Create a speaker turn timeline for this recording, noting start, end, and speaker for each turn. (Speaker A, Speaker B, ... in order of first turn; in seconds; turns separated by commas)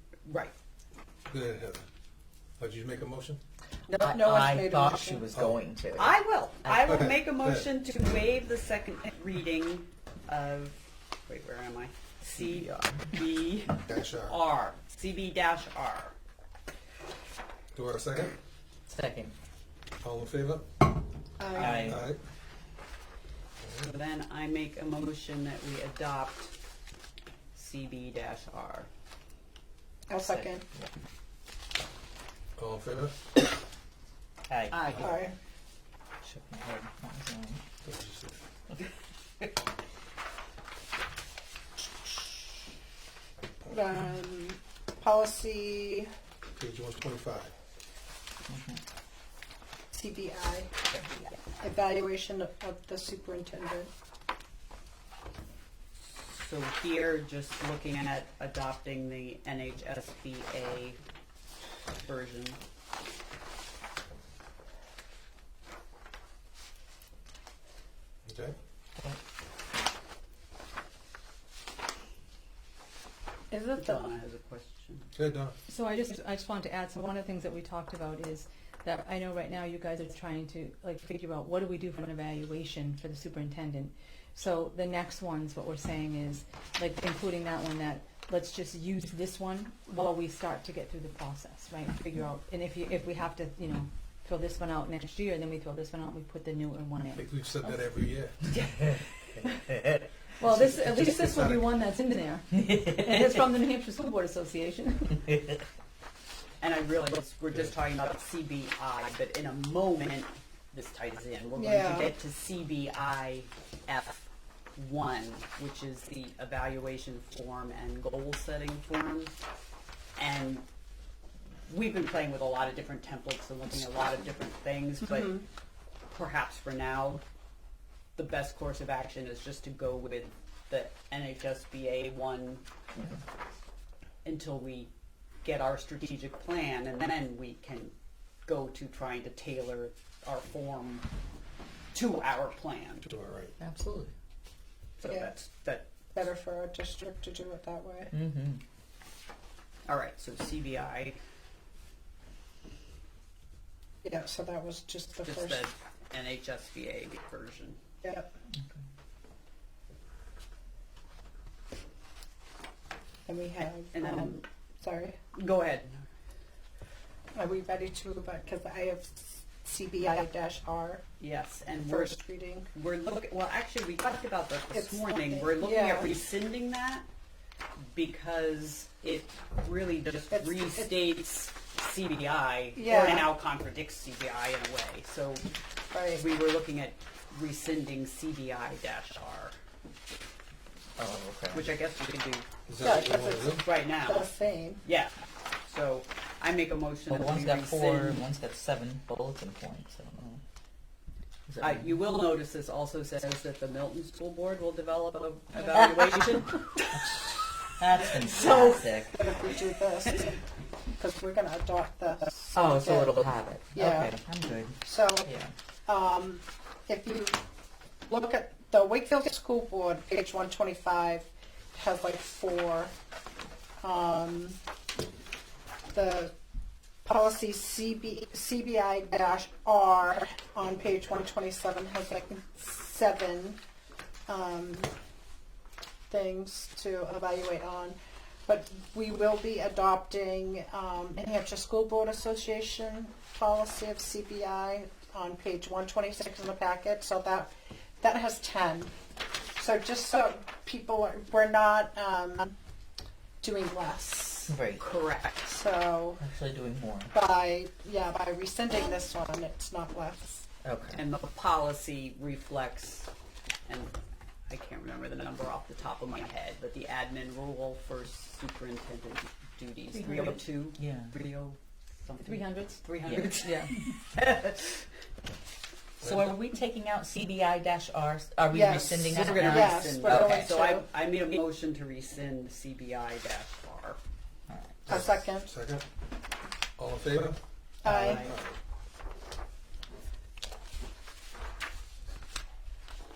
Speaker A: 0.3-0.5, Speaker B: 1.3-1.8, Speaker B: 2.6-3.4, Speaker C: 3.9-5.3, Speaker D: 4.0-6.9, Speaker B: 5.3-5.6, Speaker A: 6.0-10.8, Speaker B: 6.8-7.7, Speaker A: 11.3-16.1, Speaker B: 13.8-14.4, Speaker B: 17.7-18.4, Speaker D: 18.9-19.3, Speaker B: 20.0-20.6, Speaker C: 21.4-21.9, Speaker D: 21.5-22.1, Speaker A: 21.6-21.9, Speaker B: 21.8-22.2, Speaker B: 23.6-23.9, Speaker A: 23.8-26.5, Speaker A: 27.6-28.9, Speaker C: 30.1-30.6, Speaker D: 30.2-30.9, Speaker B: 32.5-33.1, Speaker D: 34.5-35.0, Speaker A: 34.7-35.1, Speaker C: 35.0-35.3, Speaker D: 36.2-37.6, Speaker B: 37.8-38.4, Speaker C: 43.7-46.1, Speaker B: 46.5-47.5, Speaker D: 48.5-48.8, Speaker C: 49.9-50.7, Speaker C: 51.6-53.9, Speaker A: 56.1-61.0, Speaker A: 62.0-62.6, Speaker B: 68.2-68.5, Speaker C: 73.5-74.1, Speaker A: 73.8-75.0, Speaker B: 75.1-75.5, Speaker E: 75.7-97.5, Speaker B: 97.1-98.9, Speaker D: 99.7-100.0, Speaker E: 100.4-105.2, Speaker B: 100.5-101.6, Speaker D: 102.6-103.4, Speaker A: 106.6-119.4, Speaker C: 111.6-112.1, Speaker A: 120.2-120.6, Speaker A: 121.7-125.4, Speaker C: 125.1-125.4, Speaker A: 126.1-127.2, Speaker A: 128.2-132.7, Speaker A: 134.2-134.9, Speaker A: 135.4-137.9, Speaker A: 138.5-141.1, Speaker A: 141.9-143.1, Speaker B: 143.0-143.5, Speaker D: 143.6-144.1, Speaker A: 145.0-145.9, Speaker C: 145.0-145.3, Speaker C: 146.1-148.1, Speaker D: 148.1-148.6, Speaker A: 149.9-151.2, Speaker C: 154.0-155.7, Speaker A: 155.2-157.8, Speaker C: 158.0-158.3, Speaker D: 158.6-158.8, Speaker C: 163.2-165.2, Speaker A: 163.9-164.4, Speaker A: 165.3-166.1, Speaker C: 167.3-171.0, Speaker A: 171.2-172.2, Speaker C: 171.9-172.7, Speaker A: 172.7-177.1, Speaker C: 174.7-176.1, Speaker A: 177.9-185.5, Speaker C: 180.3-180.9, Speaker C: 182.8-183.3, Speaker C: 185.9-186.2, Speaker A: 186.1-189.6, Speaker D: 191.0-191.7, Speaker A: 191.5-192.5, Speaker B: 192.7-193.7, Speaker C: 192.8-194.8, Speaker A: 193.6-194.3, Speaker A: 194.8-195.1, Speaker A: 195.7-198.2, Speaker D: 197.1-200.4, Speaker D: 201.5-202.0, Speaker A: 201.6-206.9, Speaker D: 207.8-209.2, Speaker A: 208.2-208.8, Speaker C: 208.3-210.3, Speaker C: 211.0-214.2, Speaker D: 212.5-215.5, Speaker C: 214.8-215.3, Speaker C: 215.9-217.4, Speaker C: 218.1-222.9, Speaker C: 223.8-224.6, Speaker C: 225.9-226.3, Speaker C: 227.0-233.6, Speaker C: 234.3-234.9, Speaker C: 236.1-248.9, Speaker C: 249.6-252.6, Speaker C: 253.4-254.6, Speaker D: 254.5-254.8, Speaker A: 254.8-255.5, Speaker C: 255.4-256.2, Speaker D: 256.2-257.1, Speaker C: 257.1-260.4, Speaker D: 260.6-261.0, Speaker A: 260.9-263.1, Speaker A: 263.7-263.9, Speaker A: 264.5-274.9, Speaker E: 270.0-270.3, Speaker D: 270.8-271.1, Speaker E: 272.2-272.8, Speaker E: 273.4-273.7, Speaker B: 276.0-276.3, Speaker D: 276.0-280.6, Speaker C: 278.5-280.9, Speaker A: 279.1-284.0, Speaker D: 284.5-284.9, Speaker B: 284.9-285.9, Speaker C: 284.9-285.5, Speaker B: 286.8-287.4, Speaker C: 287.8-288.3, Speaker A: 287.9-288.4, Speaker B: 287.9-288.6